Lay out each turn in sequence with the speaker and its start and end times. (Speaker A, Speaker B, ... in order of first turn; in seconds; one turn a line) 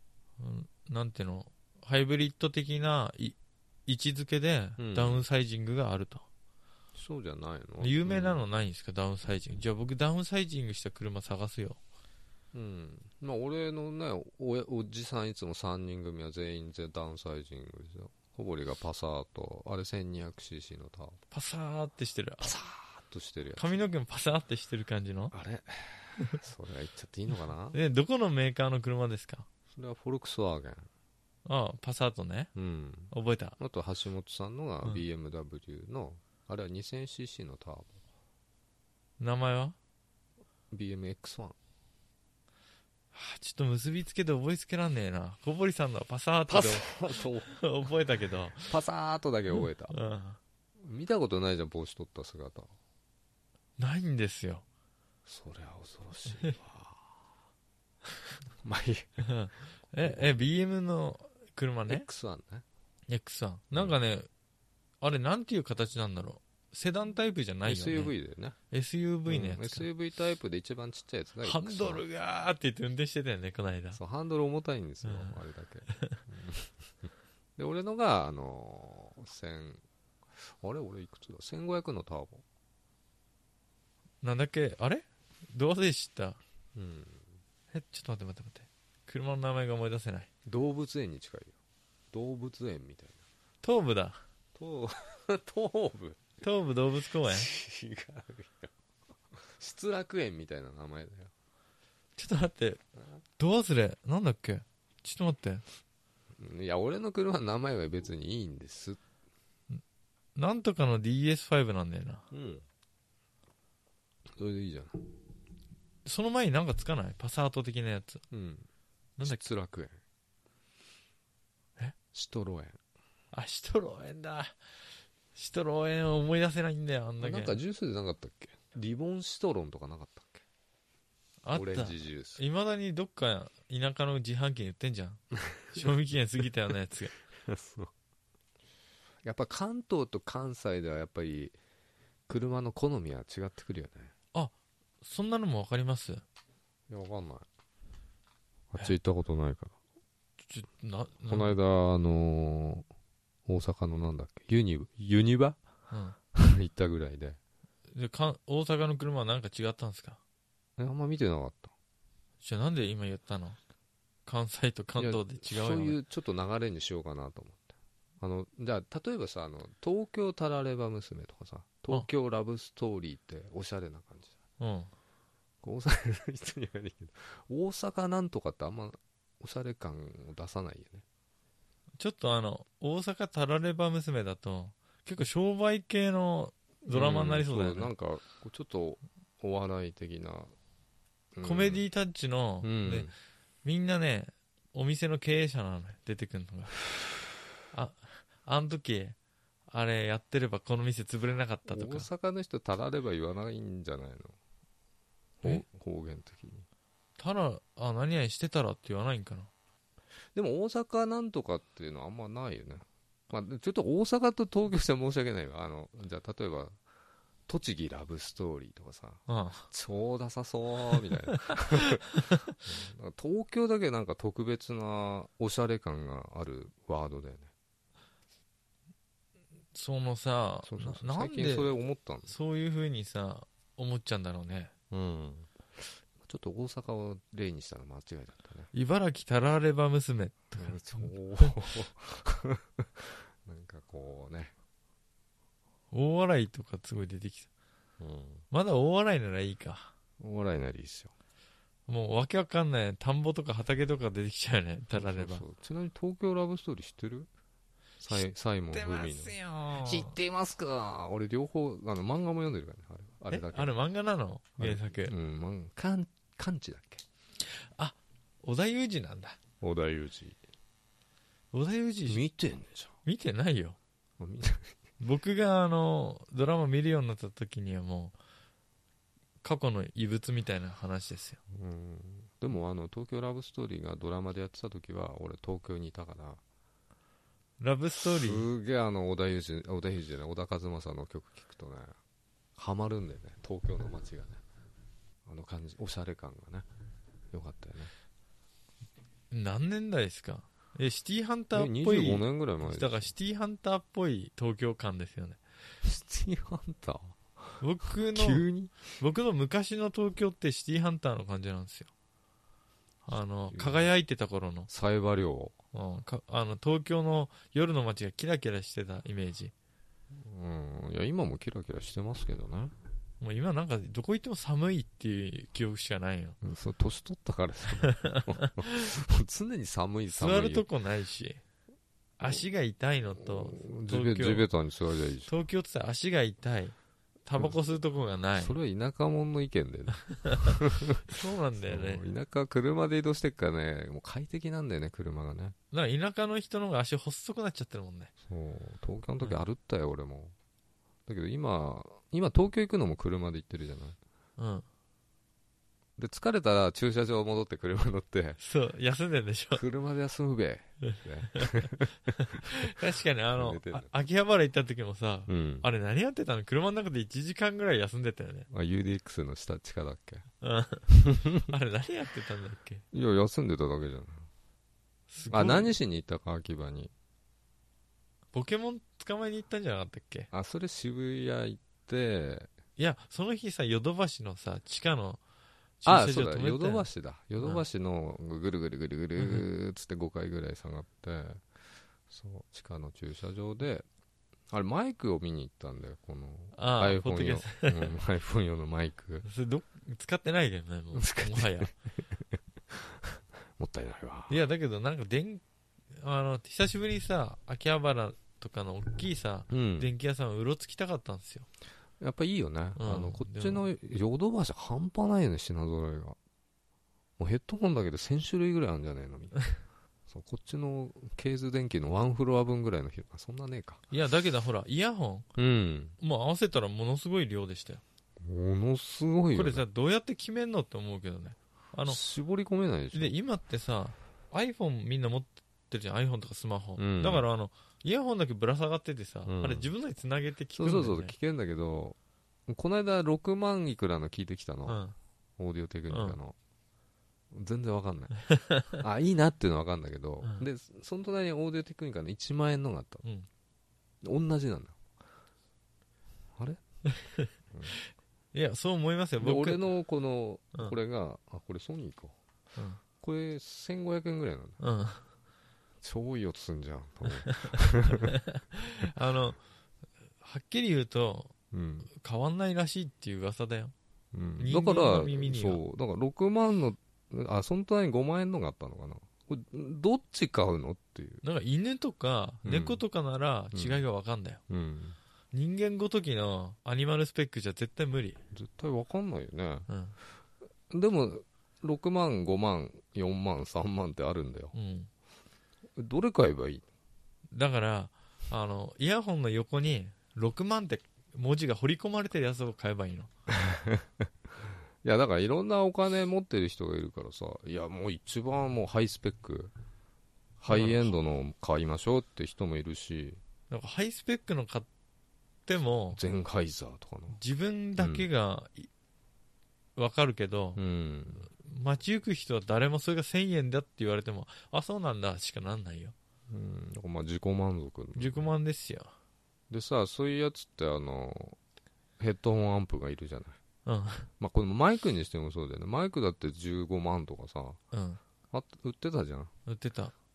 Speaker A: 0.4-6.2
Speaker B: 4.8-5.2
Speaker B: 6.9-8.4
Speaker A: 7.8-11.8
Speaker B: 12.5-21.2
Speaker A: 21.3-22.5
Speaker B: 22.4-23.8
Speaker A: 23.6-25.3
Speaker B: 25.3-27.8
Speaker A: 27.7-29.5
Speaker B: 29.7-30.9
Speaker A: 31.4-32.5
Speaker B: 32.5-37.9
Speaker A: 33.1-33.6
Speaker A: 39.2-39.8
Speaker B: 40.7-41.5
Speaker A: 43.1-46.9
Speaker B: 46.5-47.6
Speaker A: 47.4-48.8
Speaker B: 48.7-49.9
Speaker A: 49.9-50.4
Speaker B: 50.8-52.7
Speaker A: 53.8-54.6
Speaker B: 55.2-57.0
Speaker B: 58.6-59.2
Speaker A: 59.2-62.0
Speaker B: 59.9-60.4
Speaker B: 61.9-62.6
Speaker A: 63.1-64.3
Speaker A: 65.0-68.1
Speaker B: 67.6-68.6
Speaker A: 68.7-69.8
Speaker B: 69.3-72.0
Speaker A: 71.4-74.0
Speaker B: 73.9-79.8
Speaker A: 75.0-75.3
Speaker A: 75.9-76.2
Speaker B: 80.4-82.4
Speaker A: 84.2-86.4
Speaker B: 86.7-87.3
Speaker A: 87.7-90.3
Speaker B: 90.5-91.5
Speaker B: 92.1-93.2
Speaker A: 93.6-94.2
Speaker B: 94.5-96.2
Speaker A: 96.4-97.5
Speaker B: 97.2-98.7
Speaker B: 99.3-101.3
Speaker A: 102.2-102.8
Speaker A: 103.4-105.6
Speaker B: 106.4-109.0
Speaker A: 110.3-112.2
Speaker B: 112.3-112.6
Speaker B: 114.3-115.0
Speaker A: 116.0-118.2
Speaker B: 118.3-118.7
Speaker B: 119.2-120.0
Speaker B: 122.1-122.8
Speaker A: 123.3-124.6
Speaker A: 125.3-127.6
Speaker B: 127.2-130.4
Speaker A: 131.4-137.1
Speaker B: 131.5-132.4
Speaker B: 137.3-137.9
Speaker B: 139.2-141.6
Speaker B: 142.3-144.1
Speaker A: 144.3-146.2
Speaker B: 146.9-147.5
Speaker B: 148.7-149.7
Speaker A: 150.5-151.6
Speaker B: 151.3-152.9
Speaker B: 153.4-155.6
Speaker A: 155.9-156.2
Speaker B: 156.3-157.4
Speaker A: 157.9-160.2
Speaker B: 160.8-161.7
Speaker A: 162.4-163.6
Speaker A: 164.2-166.0
Speaker B: 165.0-174.4
Speaker A: 174.6-174.9
Speaker B: 175.6-181.0
Speaker A: 182.0-187.9
Speaker B: 186.9-190.5
Speaker B: 191.3-191.8
Speaker A: 191.4-193.1
Speaker B: 192.6-193.1
Speaker A: 193.6-196.8
Speaker A: 197.7-199.2
Speaker A: 199.7-202.1
Speaker B: 201.7-204.3
Speaker B: 205.4-206.7
Speaker A: 207.2-209.5
Speaker B: 210.3-216.8
Speaker B: 217.5-227.5
Speaker A: 219.3-219.7
Speaker A: 221.4-222.6
Speaker A: 229.7-231.8
Speaker B: 230.7-232.3
Speaker A: 232.3-234.7
Speaker B: 234.9-238.7
Speaker A: 238.7-241.5
Speaker B: 240.6-244.5
Speaker A: 245.9-247.5
Speaker B: 248.0-248.4
Speaker A: 248.5-249.9
Speaker B: 250.2-251.1
Speaker A: 251.9-255.4
Speaker B: 254.9-257.3
Speaker B: 258.0-263.7
Speaker A: 258.7-260.1
Speaker A: 263.3-265.1
Speaker B: 264.6-267.0
Speaker A: 267.5-269.4
Speaker B: 269.6-270.4
Speaker A: 271.5-272.2
Speaker B: 272.1-272.9
Speaker A: 273.0-273.8
Speaker B: 274.2-274.7
Speaker A: 275.0-278.1
Speaker A: 279.4-281.4
Speaker B: 281.5-286.4
Speaker A: 287.6-288.5
Speaker B: 288.0-291.9
Speaker B: 292.6-294.4
Speaker B: 295.2-296.6
Speaker B: 297.3-297.9
Speaker A: 299.3-305.4
Speaker B: 301.5-303.1
Speaker B: 305.8-308.8
Speaker A: 307.6-308.4
Speaker A: 309.0-311.9
Speaker A: 313.1-314.7
Speaker B: 313.5-313.9
Speaker B: 314.7-315.6
Speaker A: 315.7-319.5
Speaker B: 320.1-322.7
Speaker A: 323.2-326.4
Speaker B: 326.4-330.6
Speaker A: 327.8-328.9
Speaker A: 330.1-331.4
Speaker A: 332.2-334.4
Speaker B: 333.2-335.3
Speaker A: 335.2-338.5
Speaker B: 338.4-345.6
Speaker A: 340.2-342.0
Speaker A: 345.7-348.1
Speaker B: 348.2-350.3
Speaker B: 351.1-354.0
Speaker A: 354.4-354.6
Speaker B: 356.0-358.4
Speaker A: 358.4-359.6
Speaker B: 359.5-363.9
Speaker A: 360.8-368.5
Speaker B: 365.3-365.7
Speaker B: 368.5-370.2
Speaker A: 370.4-372.8
Speaker B: 370.9-371.4
Speaker B: 372.9-374.3
Speaker A: 375.1-375.7
Speaker B: 375.3-376.9
Speaker A: 378.3-380.3
Speaker B: 380.3-382.5
Speaker A: 382.8-385.2
Speaker A: 385.8-386.9
Speaker B: 385.8-391.4
Speaker A: 389.2-389.4
Speaker B: 392.1-393.8
Speaker B: 394.5-399.2
Speaker A: 396.6-397.9
Speaker A: 399.2-401.7
Speaker B: 400.9-404.4
Speaker A: 404.3-405.4
Speaker A: 405.9-411.5
Speaker B: 409.5-409.9
Speaker B: 412.0-416.2
Speaker A: 412.8-413.7
Speaker B: 417.2-419.4
Speaker B: 420.1-423.8
Speaker A: 423.9-425.3
Speaker B: 425.4-425.9
Speaker A: 426.0-427.8
Speaker B: 428.2-429.6
Speaker A: 429.3-432.0
Speaker B: 431.9-433.1
Speaker A: 432.9-441.1
Speaker B: 436.8-437.2
Speaker B: 439.2-439.7
Speaker B: 440.6-442.0
Speaker B: 442.5-444.8
Speaker A: 444.7-444.9
Speaker B: 445.4-446.3
Speaker A: 445.9-446.1
Speaker B: 447.3-448.2
Speaker A: 448.2-448.8
Speaker B: 448.7-453.0
Speaker A: 450.2-450.5
Speaker B: 454.0-454.8
Speaker A: 456.9-459.7
Speaker B: 459.2-462.1
Speaker A: 462.6-462.8
Speaker B: 463.0-464.6
Speaker A: 464.6-465.0
Speaker B: 465.8-468.2
Speaker A: 467.2-469.4
Speaker A: 470.2-471.3
Speaker B: 471.5-471.9
Speaker A: 471.9-473.7
Speaker B: 474.1-481.2
Speaker A: 474.4-475.6
Speaker A: 481.2-484.4
Speaker B: 482.4-482.8
Speaker B: 483.5-483.8
Speaker B: 484.5-485.0
Speaker A: 485.3-488.2
Speaker B: 488.3-489.7
Speaker A: 489.7-489.9
Speaker B: 490.7-494.5
Speaker A: 494.5-494.9
Speaker B: 495.8-496.6
Speaker A: 497.3-503.1
Speaker B: 503.3-504.0
Speaker B: 504.8-509.5
Speaker B: 510.4-513.2
Speaker A: 510.5-510.9
Speaker A: 513.5-514.7
Speaker A: 515.5-516.0
Speaker B: 515.9-517.2
Speaker A: 517.1-518.7
Speaker B: 517.8-518.1
Speaker A: 519.8-520.6
Speaker B: 520.5-521.3
Speaker A: 521.3-525.9
Speaker B: 526.3-528.3
Speaker A: 528.0-528.9
Speaker B: 529.5-531.4
Speaker B: 532.0-533.4
Speaker A: 533.6-534.1
Speaker B: 534.2-537.6
Speaker A: 537.7-538.0
Speaker B: 538.3-539.3
Speaker A: 539.5-539.9